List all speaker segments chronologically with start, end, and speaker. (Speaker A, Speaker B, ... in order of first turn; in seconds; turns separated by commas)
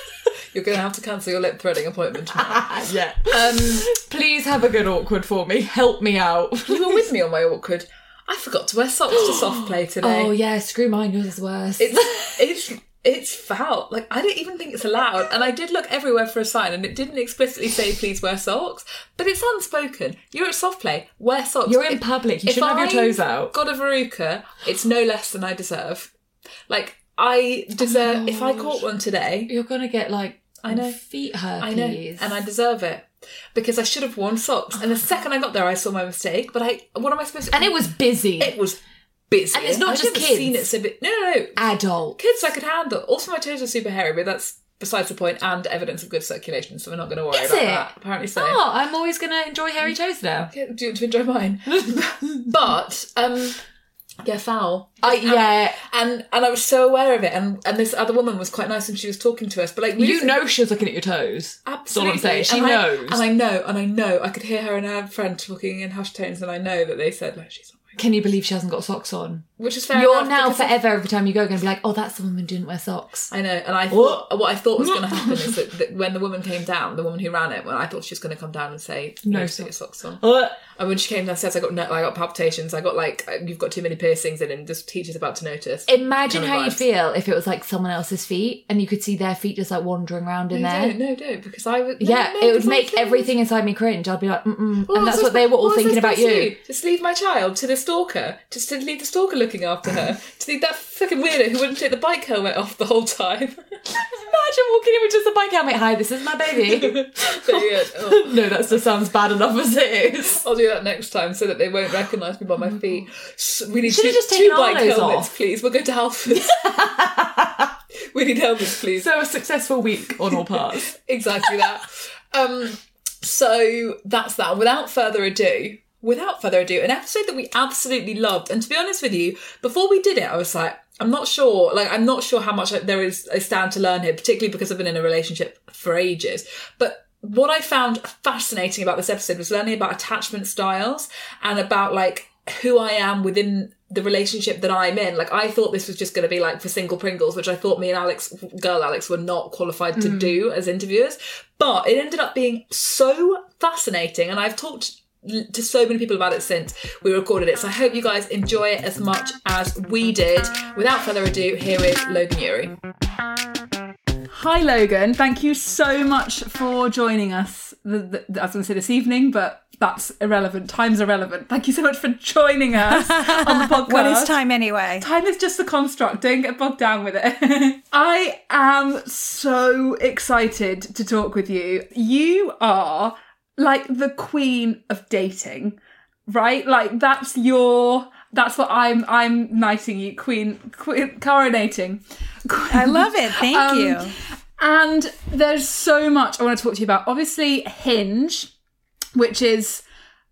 Speaker A: 0.5-3.9, Speaker B: 2.4-7.0, Speaker A: 6.7-10.3, Speaker B: 9.1-12.4, Speaker A: 11.8-26.1, Speaker B: 21.6-23.5, Speaker A: 26.7-29.5, Speaker B: 27.8-28.8, Speaker B: 29.5-32.4, Speaker A: 30.6-31.0, Speaker A: 31.6-38.8, Speaker B: 37.5-38.6, Speaker A: 39.3-41.6, Speaker B: 39.5-40.7, Speaker B: 41.5-42.2, Speaker A: 42.2-48.6, Speaker B: 47.3-50.5, Speaker A: 50.5-53.6, Speaker B: 51.7-52.5, Speaker A: 54.2-60.3, Speaker B: 55.0-55.8, Speaker B: 60.0-63.2, Speaker A: 61.6-68.0, Speaker B: 68.0-73.3, Speaker A: 69.6-70.8, Speaker A: 73.3-86.8, Speaker B: 73.9-74.3, Speaker B: 74.8-75.5, Speaker B: 79.2-80.6, Speaker B: 85.9-91.0, Speaker A: 90.5-93.3, Speaker B: 92.0-96.6, Speaker A: 94.9-103.6, Speaker B: 104.0-110.4, Speaker A: 106.7-108.4, Speaker A: 110.3-116.9, Speaker B: 113.8-115.3, Speaker B: 116.4-117.7, Speaker A: 118.1-119.1, Speaker B: 119.0-120.9, Speaker A: 120.3-162.8, Speaker B: 149.9-150.4, Speaker C: 164.3-174.3, Speaker D: 172.9-175.1, Speaker C: 175.0-198.5, Speaker D: 192.7-194.1, Speaker C: 199.1-199.8